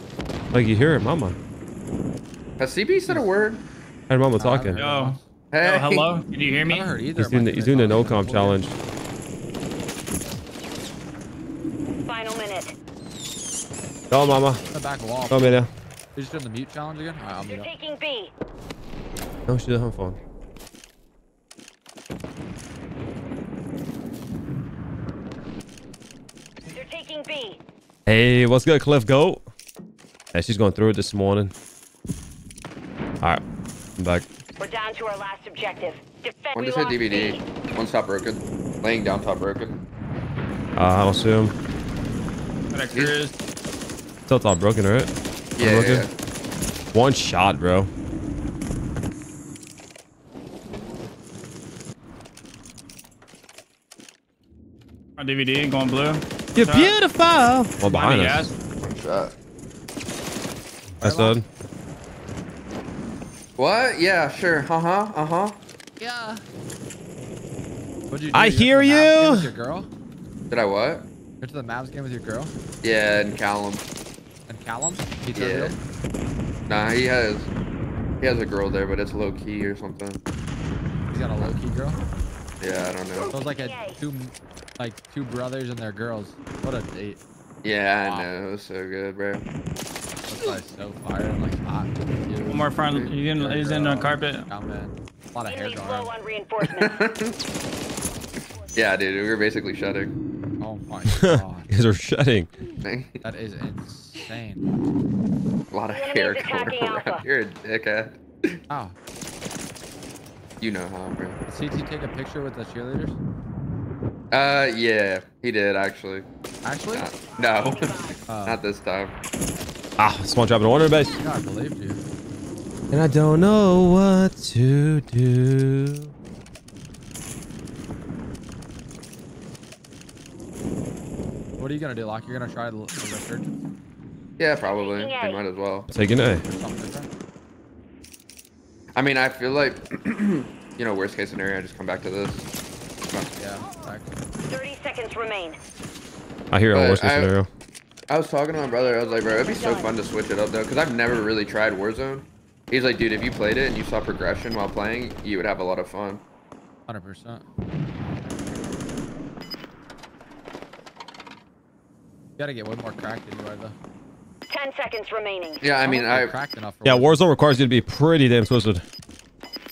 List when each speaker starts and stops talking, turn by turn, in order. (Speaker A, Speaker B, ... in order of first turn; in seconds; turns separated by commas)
Speaker A: 0.5-1.4, Speaker B: 2.6-3.6, Speaker A: 4.1-4.8, Speaker C: 4.3-5.2, Speaker D: 4.8-6.9, Speaker B: 5.5-6.2, Speaker C: 6.6-8.7, Speaker A: 7.2-8.7, Speaker E: 12.1-12.7, Speaker A: 14.1-14.6, Speaker C: 14.7-17.7, Speaker A: 15.3-15.7, Speaker E: 17.4-18.3, Speaker A: 19.5-20.2, Speaker E: 26.7-27.6, Speaker A: 28.1-29.4, Speaker A: 30.3-31.5, Speaker A: 34.0-34.2, Speaker E: 34.6-37.4, Speaker B: 36.5-39.8, Speaker A: 40.8-41.5, Speaker D: 42.7-43.3, Speaker B: 42.9-43.2, Speaker A: 44.3-46.1, Speaker B: 45.6-46.1, Speaker A: 46.9-47.9, Speaker D: 55.2-56.9, Speaker A: 56.5-58.5, Speaker D: 57.8-58.5, Speaker B: 58.8-59.3, Speaker C: 61.0-61.4, Speaker A: 61.0-61.5, Speaker B: 63.6-65.6, Speaker C: 66.0-66.4, Speaker C: 68.1-69.9, Speaker A: 68.3-69.5, Speaker B: 70.5-71.0, Speaker C: 71.4-72.5, Speaker B: 72.8-73.9, Speaker C: 74.5-75.8, Speaker B: 75.3-75.8, Speaker B: 76.7-77.5, Speaker B: 78.2-80.2, Speaker C: 81.1-82.0, Speaker B: 82.6-83.3, Speaker C: 83.3-87.2, Speaker E: 83.4-84.0, Speaker B: 87.6-89.4, Speaker C: 88.0-88.3, Speaker C: 90.3-92.5, Speaker B: 92.3-93.1, Speaker D: 92.5-94.4, Speaker C: 93.3-96.1, Speaker E: 95.4-97.0, Speaker B: 96.6-97.3, Speaker B: 98.7-100.1, Speaker C: 100.6-101.7, Speaker A: 101.2-102.5, Speaker B: 102.8-103.2, Speaker C: 103.2-104.6, Speaker B: 105.7-108.6, Speaker E: 105.9-107.2, Speaker C: 108.7-109.0, Speaker B: 110.6-111.4, Speaker C: 111.5-113.2, Speaker B: 114.3-116.3, Speaker C: 116.6-117.1, Speaker B: 116.9-119.1, Speaker E: 117.4-118.2, Speaker C: 118.3-118.6, Speaker A: 120.0-121.2, Speaker C: 120.9-122.0, Speaker A: 122.9-126.1, Speaker C: 131.6-133.6, Speaker B: 134.4-135.9, Speaker E: 134.6-135.4, Speaker A: 135.9-136.4, Speaker C: 136.2-137.1, Speaker B: 138.9-142.5, Speaker C: 143.4-144.1, Speaker E: 144.5-145.6, Speaker A: 146.5-147.5, Speaker B: 146.7-147.3, Speaker B: 148.1-156.2, Speaker E: 148.5-149.9, Speaker C: 156.9-157.4, Speaker C: 162.4-163.7, Speaker E: 164.5-165.6, Speaker B: 165.6-166.3, Speaker C: 165.8-167.2, Speaker A: 166.8-168.8